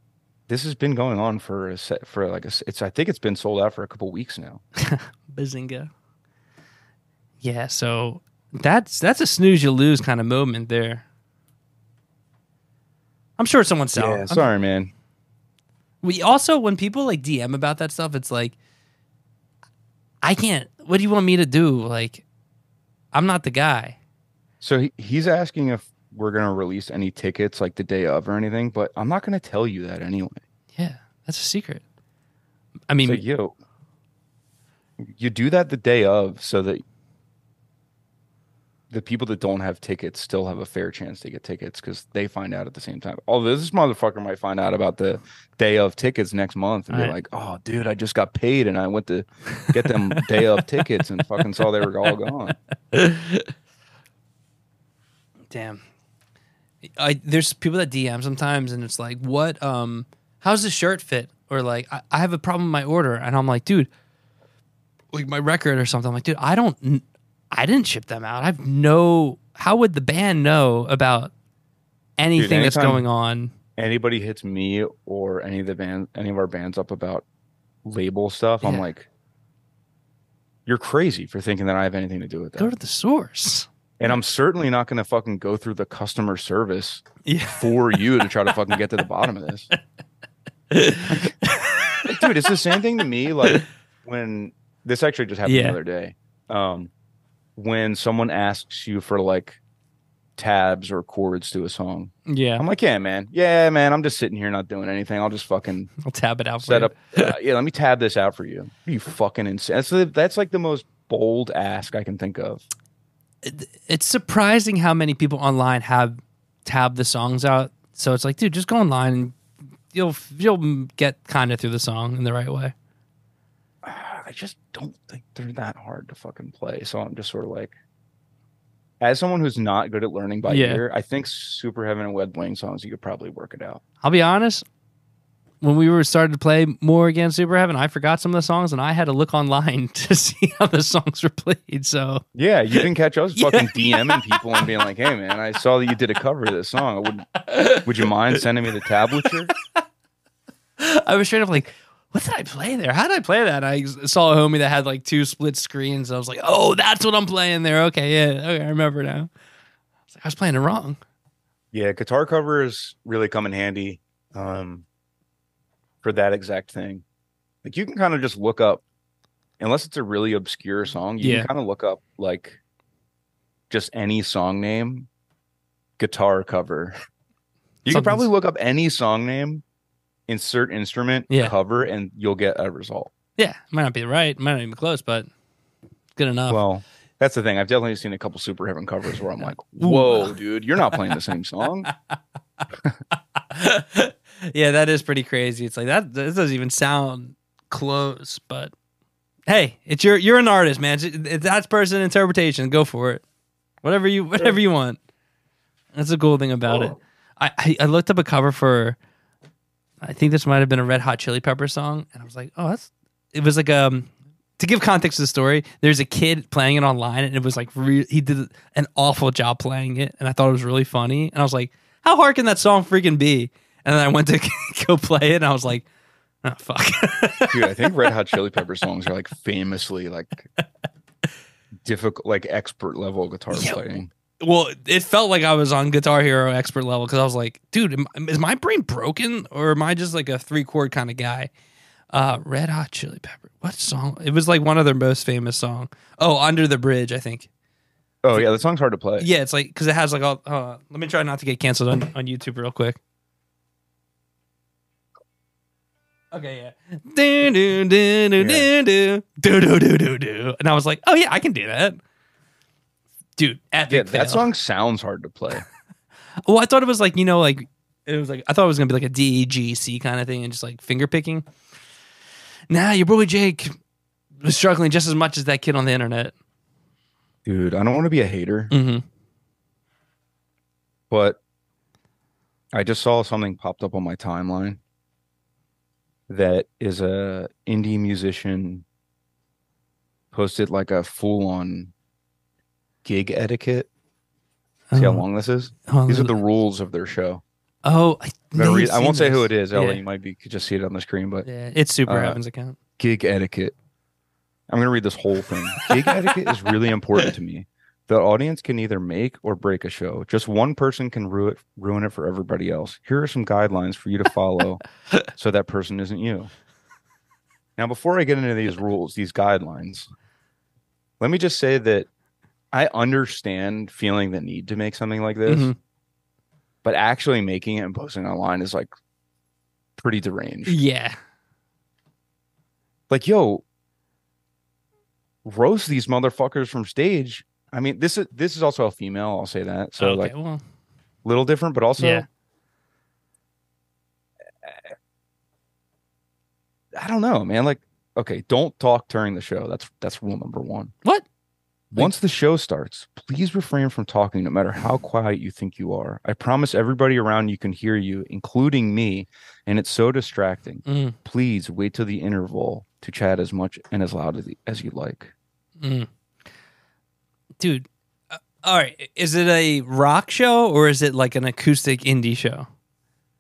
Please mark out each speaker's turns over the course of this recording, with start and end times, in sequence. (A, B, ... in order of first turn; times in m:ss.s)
0:00.5-0:04.6 A
0:04.8-0:05.9 B
0:07.4-0:11.0 B
0:13.4-0:14.5 B
0:13.9-0:14.9 A
0:16.0-0:18.6 B
0:20.2-0:22.2 B
0:23.1-0:24.0 B
0:24.6-0:30.4 A
0:30.8-0:31.8 B
0:32.9-0:33.2 B
0:33.0-0:33.6 A
0:35.0-0:36.8 A
0:38.9-0:52.6 A
0:52.9-0:53.5 B
0:55.5-0:55.8 B
0:57.0-1:03.9 B
1:05.1-1:11.3 B
1:12.2-1:13.5 B
1:12.4-1:13.0 A
1:13.8-1:17.2 A
1:17.8-1:19.1 A
1:18.6-1:18.9 B
1:20.7-1:22.7 A
1:22.6-1:23.7 B
1:24.0-1:29.7 A
1:27.2-1:27.7 B
1:30.7-1:32.3 B
1:31.1-1:31.4 A
1:32.0-1:36.9 A
1:35.5-1:35.8 B
1:37.6-1:39.6 A
1:40.4-1:45.9 A
1:42.3-1:42.6 B
1:46.0-1:47.4 B
1:46.6-1:52.6 A
1:53.4-1:59.4 B
1:59.9-2:02.7 B
2:03.8-2:07.8 A
2:09.0-2:13.8 A
2:10.5-2:10.8 B
2:14.0-2:14.6 B
2:15.6-2:22.2 B
2:22.4-2:29.5 A
2:23.4-2:24.6 B
2:27.5-2:27.9 B
2:30.8-2:39.3 B
2:40.1-2:41.0 B
2:41.7-2:44.9 A
2:46.0-2:47.0 A
2:47.6-2:48.8 A
2:49.6-2:52.6 A
2:51.2-2:51.5 B
2:53.7-2:55.1 A
2:56.0-2:56.9 A
2:57.9-2:59.6 A
2:57.9-2:58.3 B
3:00.3-3:03.1 A
3:03.4-3:05.3 B
3:06.2-3:06.6 B
3:06.5-3:11.9 A
3:09.8-3:10.4 B
3:13.4-3:18.7 B
3:19.5-3:23.2 B
3:23.8-3:25.0 B
3:25.9-3:29.0 B
3:30.0-3:45.9 B
3:46.4-3:47.9 B
3:47.5-3:50.5 A
3:51.8-3:54.1 A
3:53.5-3:53.8 B
3:54.4-4:01.5 B
4:02.1-4:07.5 B
4:08.2-4:09.3 A
4:09.2-4:13.0 B
4:16.3-4:22.0 B
4:18.4-4:18.7 A
4:23.4-4:24.5 B
4:23.9-4:25.6 A
4:26.4-4:31.5 B
4:32.7-4:33.8 B
4:34.4-4:36.3 B
4:37.4-4:38.7 A
4:38.7-4:39.0 B
4:41.1-4:41.4 A
4:42.7-4:44.8 A
4:46.3-4:48.8 A
4:50.3-4:51.9 A
4:53.0-4:53.9 A
4:54.9-4:55.2 B
4:55.0-4:57.4 A
4:55.9-4:56.4 B
4:57.8-5:00.0 B
4:58.6-5:01.5 A
5:01.4-5:02.8 B
5:02.1-5:02.4 A
5:03.0-5:03.8 A
5:04.7-5:16.5 A
5:05.8-5:06.5 B
5:17.8-5:20.1 A
5:21.2-5:22.1 A
5:22.7-5:25.7 A
5:25.5-5:25.8 B
5:26.8-5:28.9 A
5:30.0-5:30.8 A
5:30.7-5:31.2 B
5:33.1-5:33.6 A
5:35.4-5:40.3 A
5:40.0-5:40.6 B
5:41.2-5:42.3 A
5:42.0-5:42.3 B
5:44.6-5:44.9 A
5:47.0-5:50.9 A
5:51.9-6:05.3 A
6:00.9-6:01.2 B
6:05.8-6:06.1 B
6:07.6-6:12.7 B